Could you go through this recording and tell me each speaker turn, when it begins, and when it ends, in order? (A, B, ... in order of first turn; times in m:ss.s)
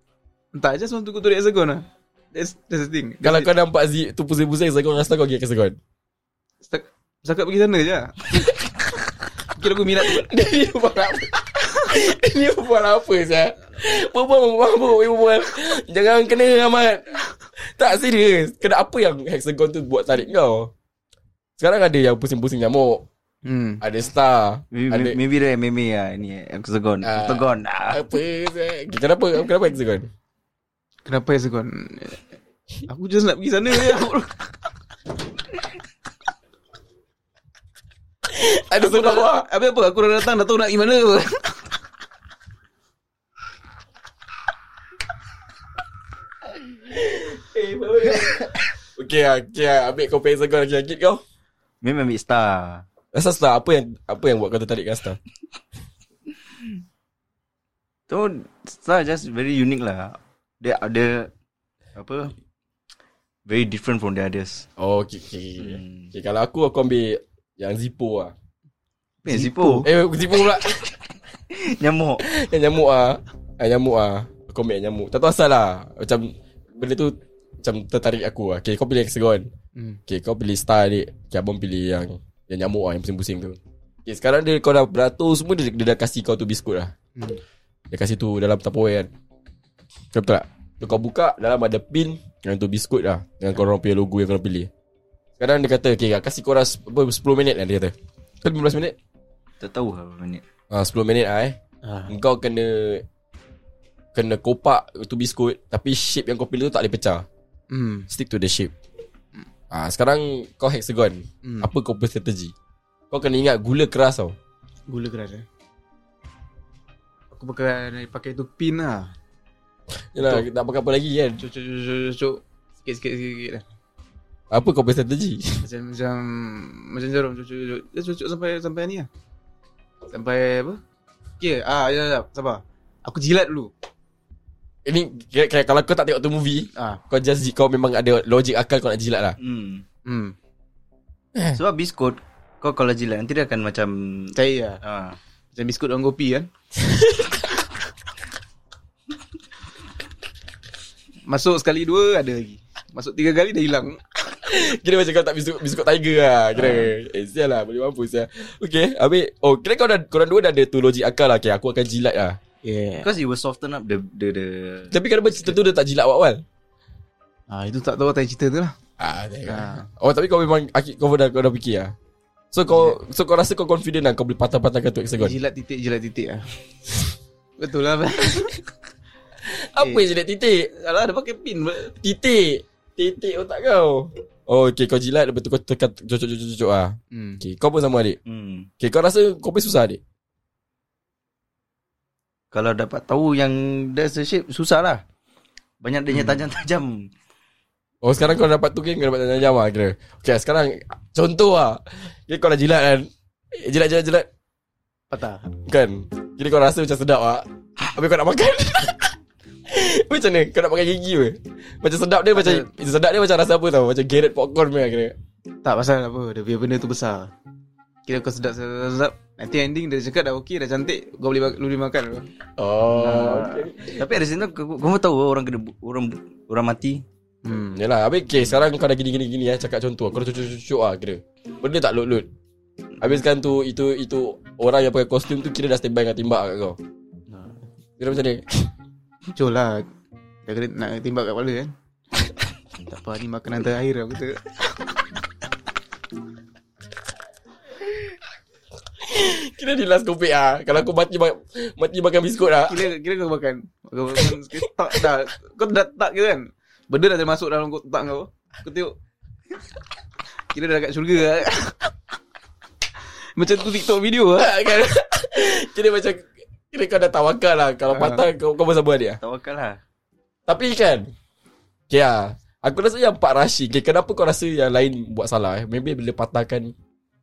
0:00.5-0:03.5 A
0:03.2-0:05.8 B
0:06.6-0:08.5 A
0:09.4-0:10.3 A
0:10.0-0:20.7 B
0:21.6-0:23.0 B
0:23.4-0:23.8 A
0:23.8-0:25.2 B
0:24.7-0:28.0 C
0:27.0-0:30.1 B
0:31.0-0:32.2 A
0:32.9-0:34.4 A
0:38.3-0:39.5 B
0:38.8-0:41.6 A
0:46.9-0:51.2 B
0:51.8-0:52.8 C
0:53.1-0:55.2 B
0:58.1-1:01.3 C
1:02.0-1:02.3 C
1:03.5-1:04.7 C
1:04.8-1:08.3 B
1:05.6-1:06.1 C
1:09.2-1:09.9 A
1:09.3-1:09.9 C
1:09.8-1:10.9 B
1:11.5-1:12.2 C
1:12.2-1:19.5 B
1:19.8-1:20.0 A
1:20.1-1:26.9 B
1:27.2-1:27.4 A
1:27.9-1:29.1 B
1:30.1-1:34.7 B
1:35.4-1:39.0 B
1:39.6-1:40.4 C
1:40.7-1:41.6 B
1:41.8-1:42.1 A
1:42.1-1:43.0 B
1:44.1-1:47.2 B
1:47.7-1:48.1 A
1:48.1-1:48.7 B
1:49.7-1:52.5 B
1:51.4-1:51.7 A
1:53.1-1:54.3 B
1:54.9-1:55.4 A
1:57.3-1:59.1 A
2:00.1-2:01.4 B
2:00.2-2:00.4 A
2:01.4-2:03.6 A
2:04.5-2:05.6 B
2:05.6-2:09.1 A
2:10.1-2:10.8 A
2:11.4-2:13.7 A
2:14.8-2:19.4 B
2:16.8-2:17.0 A
2:19.4-2:19.8 C
2:20.0-2:20.3 A
2:21.3-2:21.6 B
2:21.5-2:25.2 C
2:24.3-2:24.8 A
2:25.5-2:26.5 A
2:31.3-2:34.4 A
2:34.4-2:42.4 B
2:36.6-2:36.9 A
2:42.6-2:43.1 A
2:43.0-2:44.9 C
2:44.9-2:46.4 B
2:47.5-2:48.7 A
2:49.0-2:51.9 B
2:49.4-2:49.9 A
2:52.5-2:55.4 B
2:52.7-2:53.0 A
2:55.2-2:56.5 A
2:57.6-2:58.6 A
2:59.4-3:00.7 B
2:59.8-3:00.0 A
3:00.7-3:01.9 A
3:01.9-3:08.2 B
3:07.1-3:07.4 A
3:08.2-3:08.7 C
3:08.8-3:10.0 B
3:12.5-3:15.0 C
3:15.8-3:17.1 C
3:16.1-3:16.4 A
3:18.0-3:24.3 B
3:25.1-3:25.5 A
3:25.6-3:29.2 B
3:29.7-3:35.2 B
3:32.3-3:32.7 A
3:35.6-3:37.3 A
3:38.0-3:42.3 A
3:42.6-3:44.1 B
3:43.0-3:43.5 A
3:43.1-3:47.0 C
3:47.4-3:47.8 A
3:47.7-3:52.3 B
3:53.0-3:56.8 B
3:57.3-3:57.6 A
3:58.0-3:58.7 B
3:59.3-3:59.8 A
4:00.4-4:01.7 A
4:02.8-4:05.0 A
4:09.0-4:12.8 B
4:12.7-4:18.9 A
4:20.5-4:21.9 A
4:23.4-4:24.5 A
4:24.4-4:29.2 B
4:27.9-4:28.2 A
4:29.2-4:29.8 C
4:30.5-4:31.1 B
4:31.9-4:36.7 B